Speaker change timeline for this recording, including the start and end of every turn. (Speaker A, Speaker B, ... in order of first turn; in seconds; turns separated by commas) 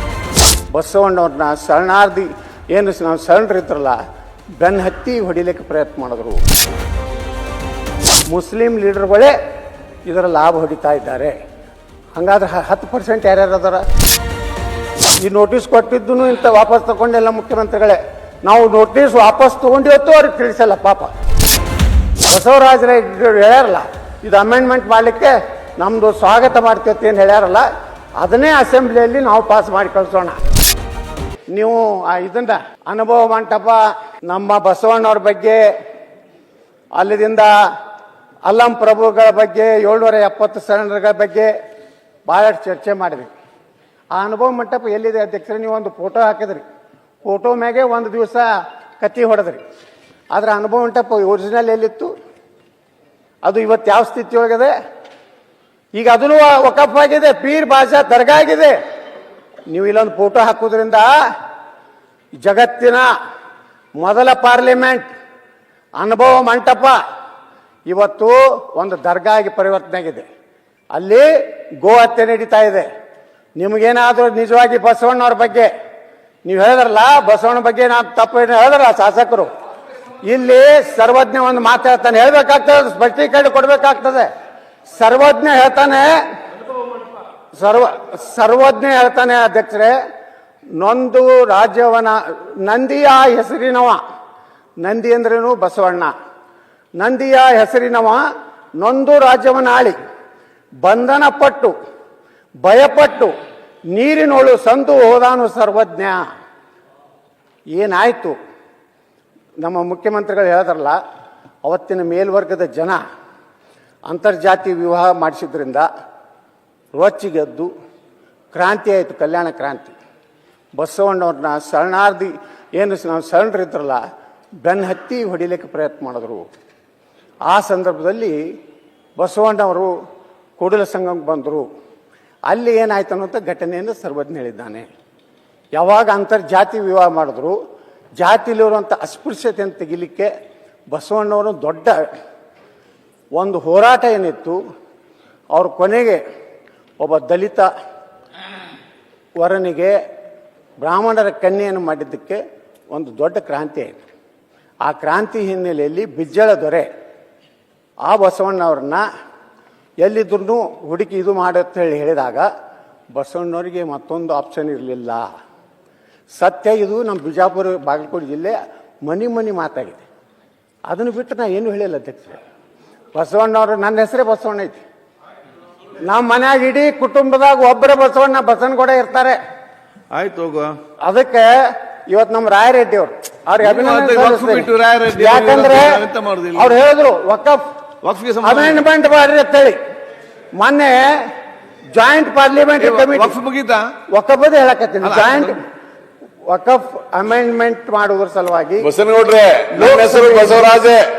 Speaker A: 0.7-4.0, Speaker A: 4.6-6.4, Speaker A: 8.3-9.3, Speaker A: 10.1-11.4, Speaker A: 12.2-13.8, Speaker A: 15.2-21.1, Speaker A: 22.3-27.7, Speaker A: 28.2-30.4, Speaker A: 31.5-35.6, Speaker A: 37.0-37.5, Speaker A: 38.5-41.5, Speaker A: 42.3-43.3, Speaker A: 44.1-46.6, Speaker A: 47.2-49.6, Speaker A: 50.3-52.1, Speaker A: 53.5-54.7, Speaker A: 56.0-58.8, Speaker A: 59.7-61.1, Speaker A: 62.4-63.1, Speaker A: 64.0-65.1, Speaker A: 66.0-67.0, Speaker A: 67.9-70.2, Speaker A: 70.9-72.9, Speaker A: 73.6-75.7, Speaker A: 76.5-79.5, Speaker A: 80.2-84.3, Speaker A: 84.9-86.2, Speaker A: 87.5-90.0, Speaker A: 90.8-94.0, Speaker A: 94.8-96.1, Speaker A: 97.0-98.2, Speaker A: 98.8-100.0, Speaker A: 100.8-101.7, Speaker A: 102.6-103.3, Speaker A: 103.9-106.2, Speaker A: 107.7-108.4, Speaker A: 109.6-111.0, Speaker A: 111.7-113.0, Speaker A: 114.1-115.9, Speaker A: 116.9-117.7, Speaker A: 118.5-119.9, Speaker A: 120.8-124.0, Speaker A: 124.6-126.5, Speaker A: 127.5-128.4, Speaker A: 129.2-129.9, Speaker A: 130.6-131.7, Speaker A: 132.5-134.9, Speaker A: 135.8-137.6, Speaker A: 138.2-140.3, Speaker A: 140.9-142.1, Speaker A: 143.4-144.6, Speaker A: 145.5-146.2, Speaker A: 147.0-147.7, Speaker A: 149.4-150.0, Speaker A: 150.8-154.0, Speaker A: 154.8-156.9, Speaker A: 158.0-159.1, Speaker A: 160.0-162.5, Speaker A: 163.1-165.3, Speaker A: 166.4-170.0, Speaker A: 170.9-172.4, Speaker A: 173.2-174.8, Speaker A: 176.0-179.4, Speaker B: 180.1-180.8, Speaker A: 181.0-186.0, Speaker B: 183.6-186.8, Speaker A: 186.6-187.7, Speaker B: 188.0-188.8, Speaker A: 188.4-189.8, Speaker A: 190.6-191.3, Speaker A: 191.9-193.4, Speaker B: 192.8-193.9, Speaker A: 194.1-195.6, Speaker B: 195.0-195.6, Speaker A: 196.5-198.9, Speaker C: 199.0-201.0, Speaker A: 199.7-200.9